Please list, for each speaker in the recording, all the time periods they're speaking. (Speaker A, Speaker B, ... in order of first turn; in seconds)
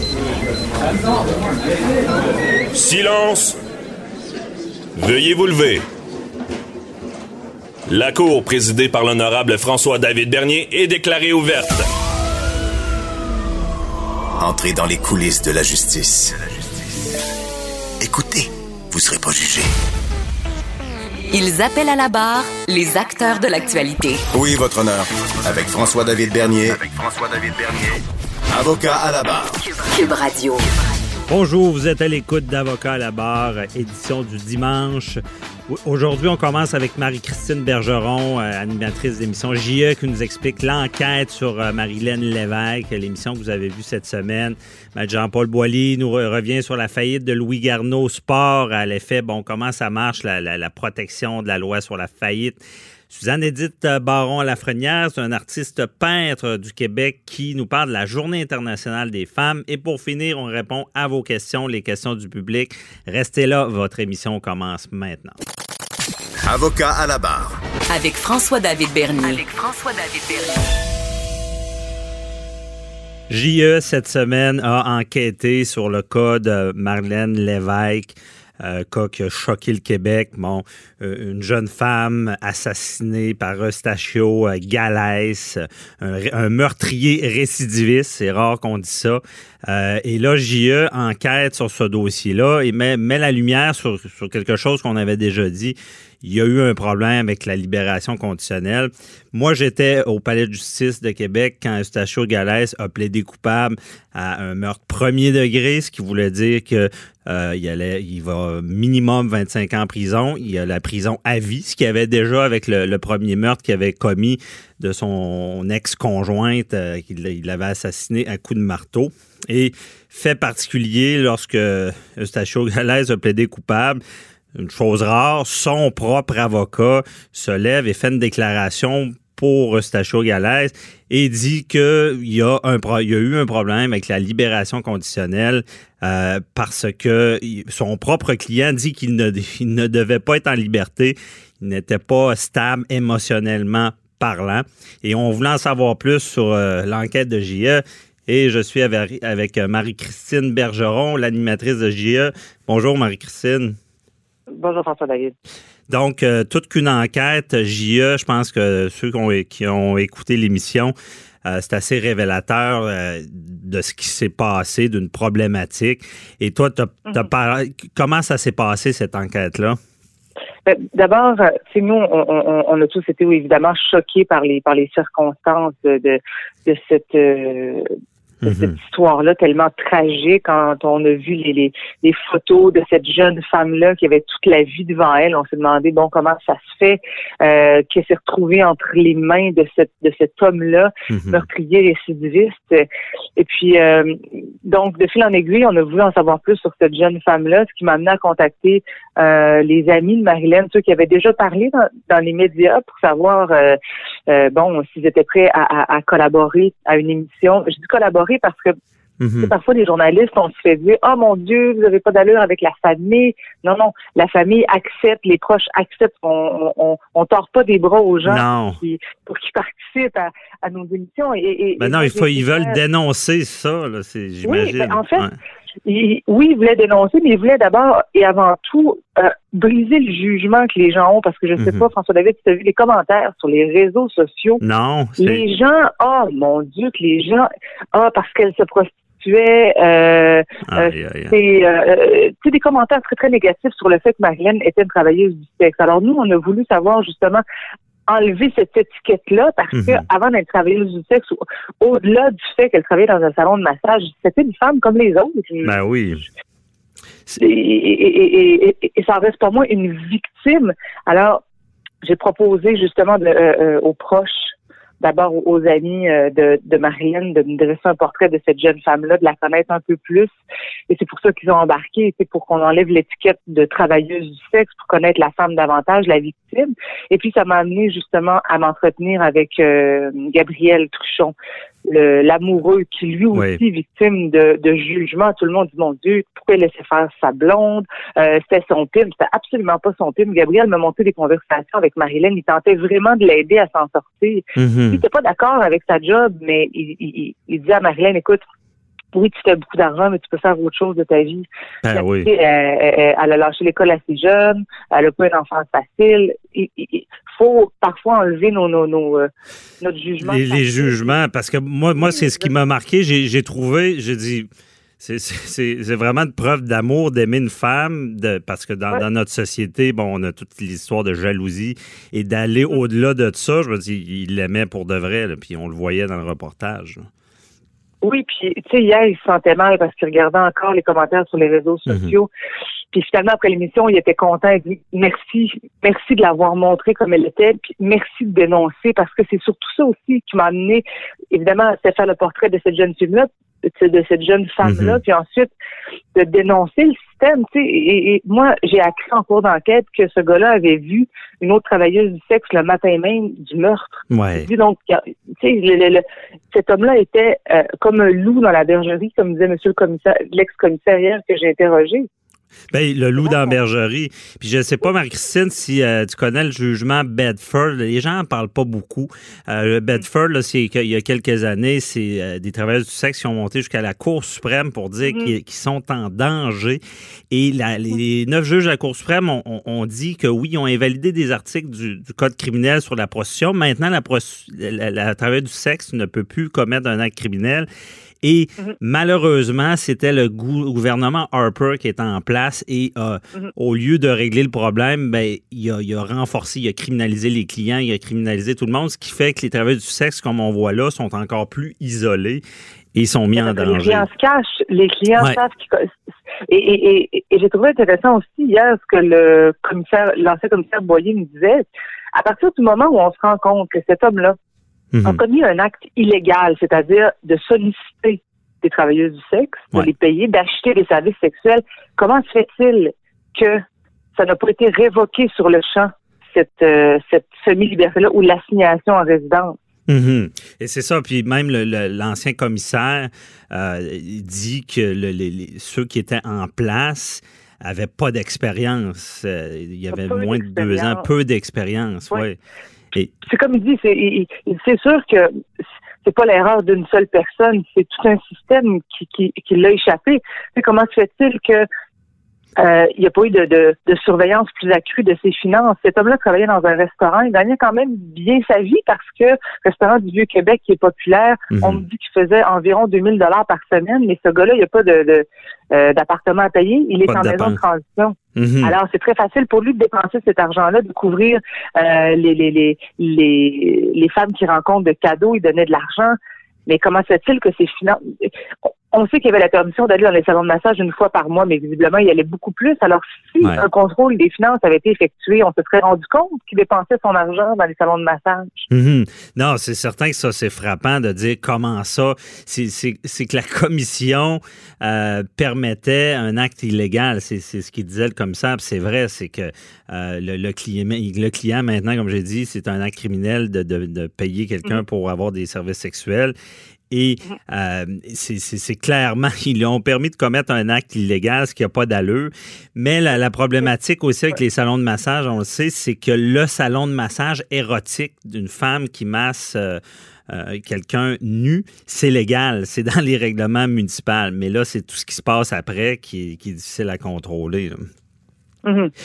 Speaker A: 2.7-3.5, 5.0-5.8, 7.9-11.8
Speaker B: 14.4-17.1, 18.0-19.7, 24.3-29.6, 66.5-67.5
Speaker C: 21.3-24.2, 29.9-30.6, 67.9-70.7
Speaker D: 31.3-52.6, 53.1-65.3, 73.3-124.0, 124.5-153.8, 155.9-160.9, 161.4-169.8, 178.4-178.7, 191.1-191.4, 209.2-209.5, 218.2-218.8, 221.8-225.3, 231.6-231.9, 234.6-235.4, 240.7-241.4, 249.7-250.0, 255.6-256.2, 283.3-283.6, 294.6-295.0, 301.8-302.3, 310.2-314.5, 315.0-327.1, 331.9-332.1, 344.6-345.0, 354.1-354.5, 362.7-387.7, 388.2-404.1, 414.9-415.2, 429.9-442.4, 461.5-461.8, 467.0-467.6, 468.4-468.7, 488.7-506.3, 506.9-527.9
Speaker E: 154.5-155.3, 170.7-177.9, 178.4-208.7, 209.4-222.8, 224.4-225.3, 225.8-234.6, 235.2-247.4, 248.1-255.8, 257.4-261.4, 262.0-270.3, 270.9-281.3, 281.9-298.4, 299.1-309.3, 309.8-311.1, 312.0-312.5, 328.0-332.3, 332.9-345.5, 346.1-362.1, 363.2-363.5, 375.1-375.3, 403.4-405.9, 406.5-414.4, 415.0-423.6, 424.1-429.6, 439.9-441.1, 443.2-445.4, 446.0-451.7, 452.6-488.7, 528.6-528.9